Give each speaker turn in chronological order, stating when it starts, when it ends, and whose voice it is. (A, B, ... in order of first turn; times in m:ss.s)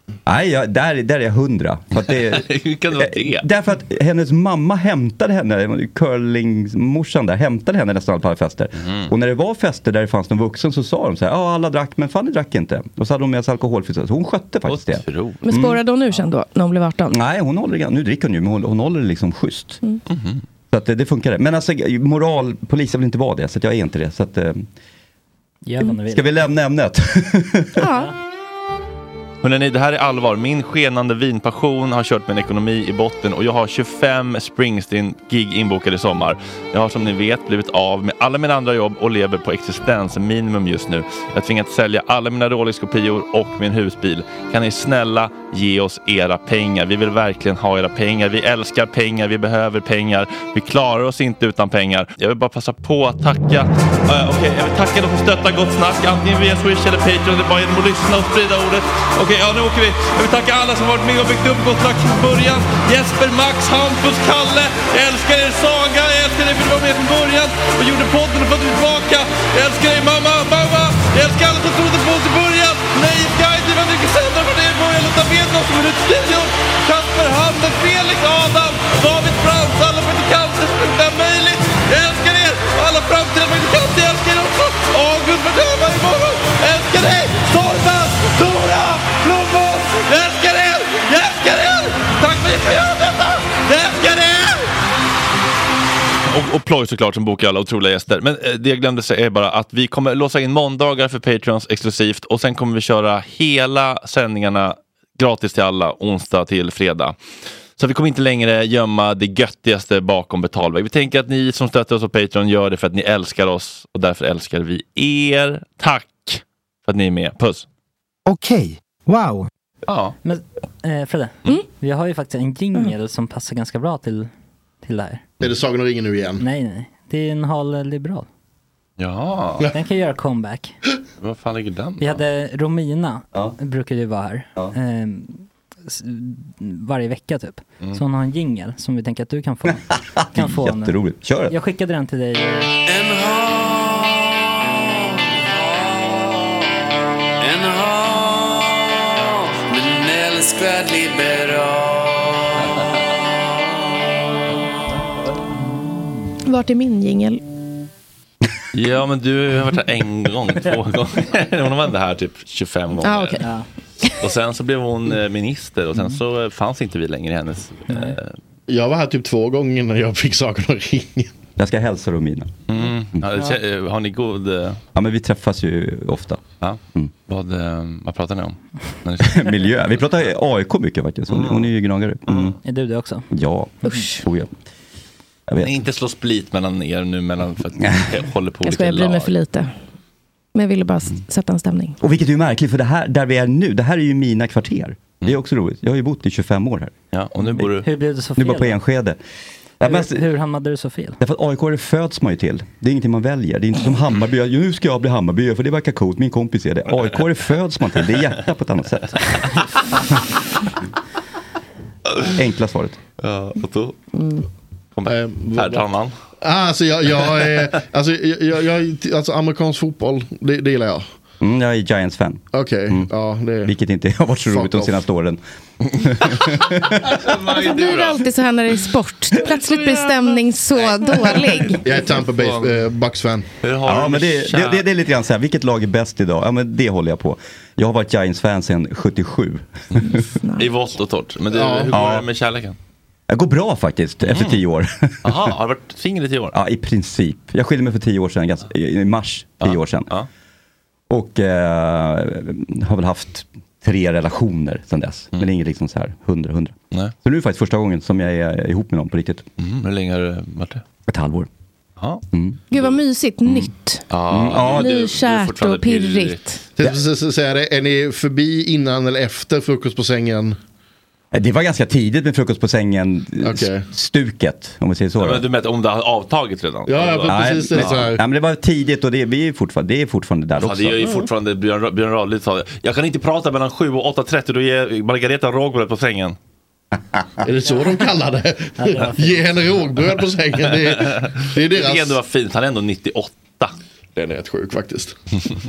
0:00.3-0:15.8 A
0:01.9-0:03.4 B
0:08.8-0:09.1 B
0:14.6-0:15.4 B
0:15.4-0:17.2 C
0:17.1-0:19.8 A
0:20.1-0:20.4 B
0:20.7-0:24.7 A
0:25.6-0:26.3 D
0:26.0-0:27.8 A
0:27.8-0:28.1 C
0:29.4-1:34.7 B
1:36.3-1:47.2 B
1:47.8-1:57.6 B
1:59.8-2:00.2 B
2:00.2-2:04.3 D
2:04.8-2:05.2 D
2:05.4-2:06.4 E
2:06.4-2:08.3 D
2:09.0-2:09.7 B
2:09.7-2:10.7 D
2:11.2-2:12.2 B
2:12.0-2:22.7 D
2:20.2-2:21.6 A
2:22.8-2:26.8 F
2:27.4-2:32.6 F
2:36.4-2:37.4 C
2:38.7-2:43.4 B
2:43.0-2:43.4 C
2:43.4-2:43.6 D
2:44.2-2:48.4 B
2:47.9-2:48.2 D
2:48.7-2:51.3 E
2:51.6-2:52.5 A
2:52.7-2:54.8 B
2:54.9-2:56.4 A
2:56.6-2:59.7 B
2:59.2-3:02.6 A
3:01.3-3:01.6 B
3:02.6-3:03.3 D
3:03.3-3:04.5 A
3:03.8-3:04.2 C
3:05.6-3:09.3 B
3:08.6-3:09.7 C
3:10.6-3:12.0 C
3:12.0-3:16.9 A
3:17.1-3:17.9 B
3:17.8-3:18.8 D
3:18.4-3:19.2 A
3:19.8-3:20.3 A
3:19.8-3:21.2 D
3:21.2-3:29.5 A
3:32.3-3:33.0 A
3:33.2-3:34.0 B
3:34.1-3:34.4 C
3:35.0-3:36.1 B
3:35.1-3:35.8 E
3:36.4-3:41.0 E
3:41.4-3:43.1 A
3:42.5-3:43.7 E
3:43.6-3:45.4 A
3:44.5-3:45.0 E
3:45.9-3:47.2 A
3:47.2-3:48.3 B
3:47.5-3:51.8 C
3:49.6-3:52.7 B
3:51.8-3:53.5 E
3:53.6-3:54.9 B
3:53.8-4:00.2 A
4:00.4-4:00.7 C
4:00.6-4:02.8 B
4:01.5-4:02.2 E
4:03.3-4:05.5 A
4:04.2-4:04.6 B
4:05.2-4:06.6 B
4:06.5-4:10.1 A
4:09.6-4:10.3 B
4:11.1-4:19.4 A
4:19.6-4:20.8 B
4:21.1-4:21.5 A
4:22.0-4:22.2 B
4:22.3-4:22.6 A
4:22.7-4:24.1 C
4:23.6-4:26.4 B
4:24.2-4:24.9 A
4:24.6-4:26.6 C
4:26.8-4:30.6 E
4:31.3-4:35.5 A
4:33.4-4:33.9 E
4:35.2-4:38.1 B
4:36.9-4:38.2 E
4:37.3-4:41.1 A
4:40.6-4:46.4 B
4:47.4-4:52.2 E
4:48.8-4:49.5 D
4:50.7-4:53.7 B
4:54.2-4:55.2 E